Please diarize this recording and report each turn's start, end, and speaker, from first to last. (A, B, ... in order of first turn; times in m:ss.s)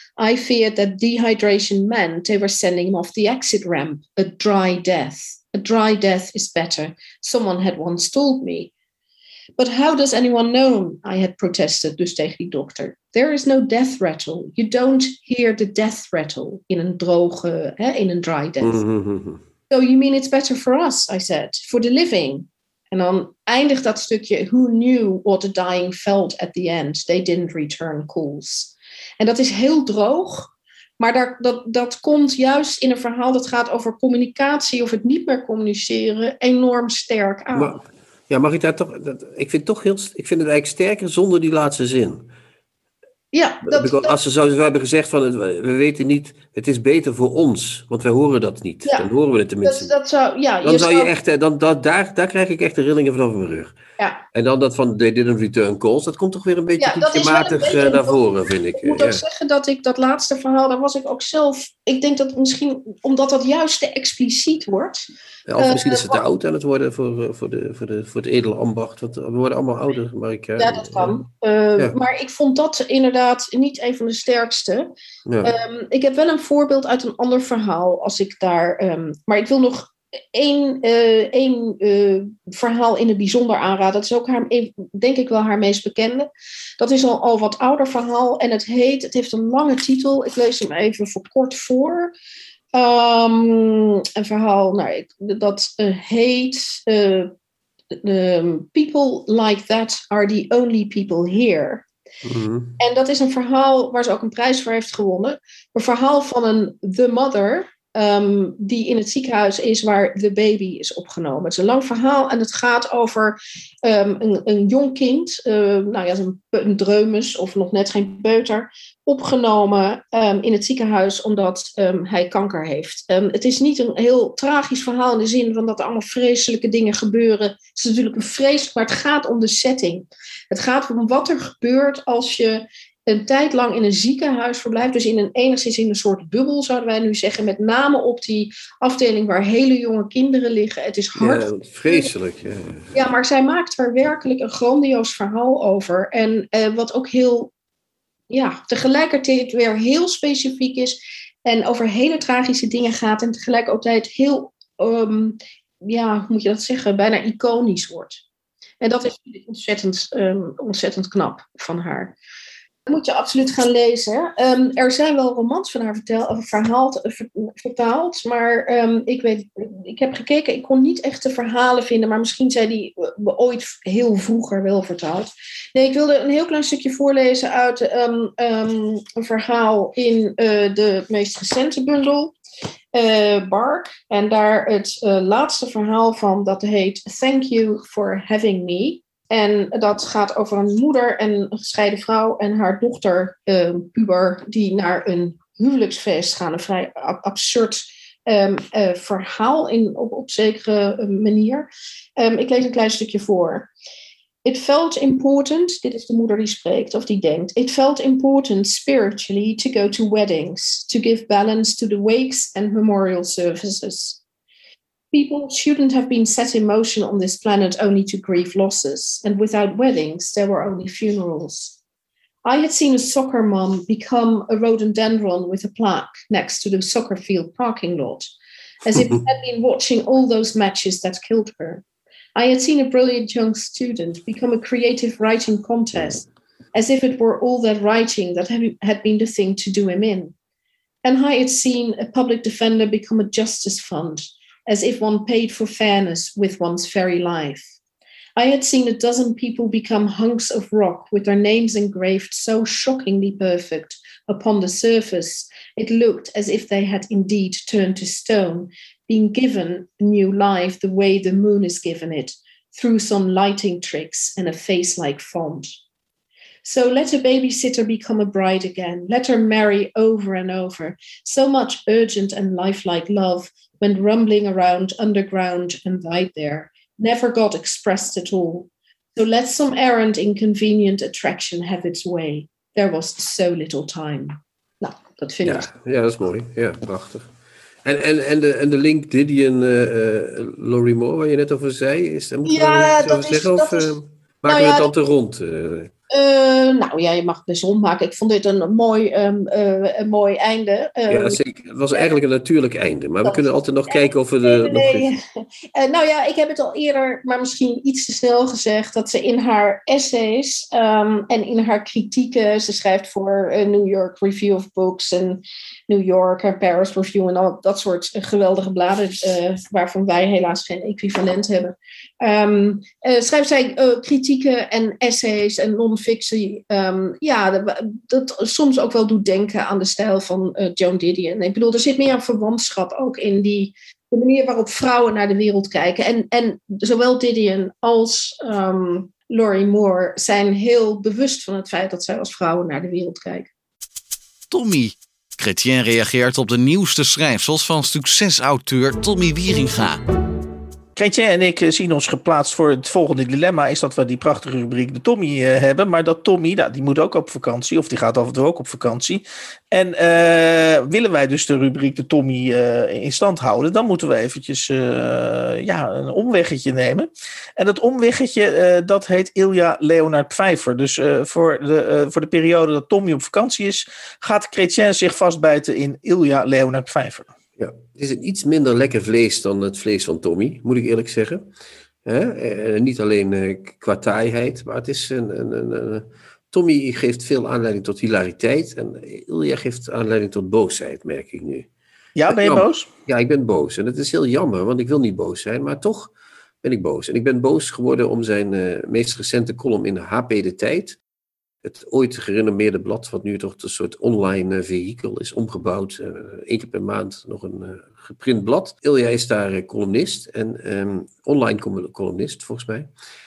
0:00.2-0:08.7 A
0:09.6-0:18.8 A
0:18.6-0:19.4 B
0:19.7-0:37.7 A
0:37.5-0:42.3 B
0:43.3-0:44.1 A
0:43.7-0:49.9 B
0:49.6-0:51.1 A
0:50.6-0:53.8 B
0:54.3-0:59.2 B
0:56.8-0:58.2 A
0:58.8-1:06.2 A
1:05.5-1:11.2 B
1:10.6-1:14.9 A
1:15.3-1:15.6 B
1:15.4-1:26.3 A
1:26.8-1:32.1 A
1:32.7-1:37.3 A
1:38.0-1:41.9 A
1:42.2-1:42.8 B
1:42.8-2:22.1 A
2:21.2-2:23.0 B
2:22.9-2:27.5 A
2:28.3-2:38.2 A
2:38.8-2:42.2 A
2:42.9-3:02.3 A
3:02.9-3:23.7 A
3:24.4-3:34.2 A
3:35.1-3:41.8 A
3:42.4-3:48.3 A
3:48.8-3:51.8 A
3:48.9-3:49.2 B
3:52.4-4:00.3 A
4:01.0-4:07.7 A
4:08.4-4:25.7 A
4:26.6-4:45.7 A
4:45.4-4:47.3 B
4:47.8-4:55.9 B
4:52.5-4:53.9 A
4:54.5-4:54.9 A
4:56.1-5:01.4 A
5:01.1-5:05.1 B
5:01.9-5:02.2 A
5:03.2-5:05.2 A
5:05.8-5:43.5 A
5:44.5-5:50.0 C
5:51.0-6:17.3 D
6:17.6-6:21.4 B
6:22.0-6:31.7 B
6:32.2-6:32.9 D
6:32.3-6:36.1 B
6:36.6-6:41.0 B
6:41.6-6:52.9 B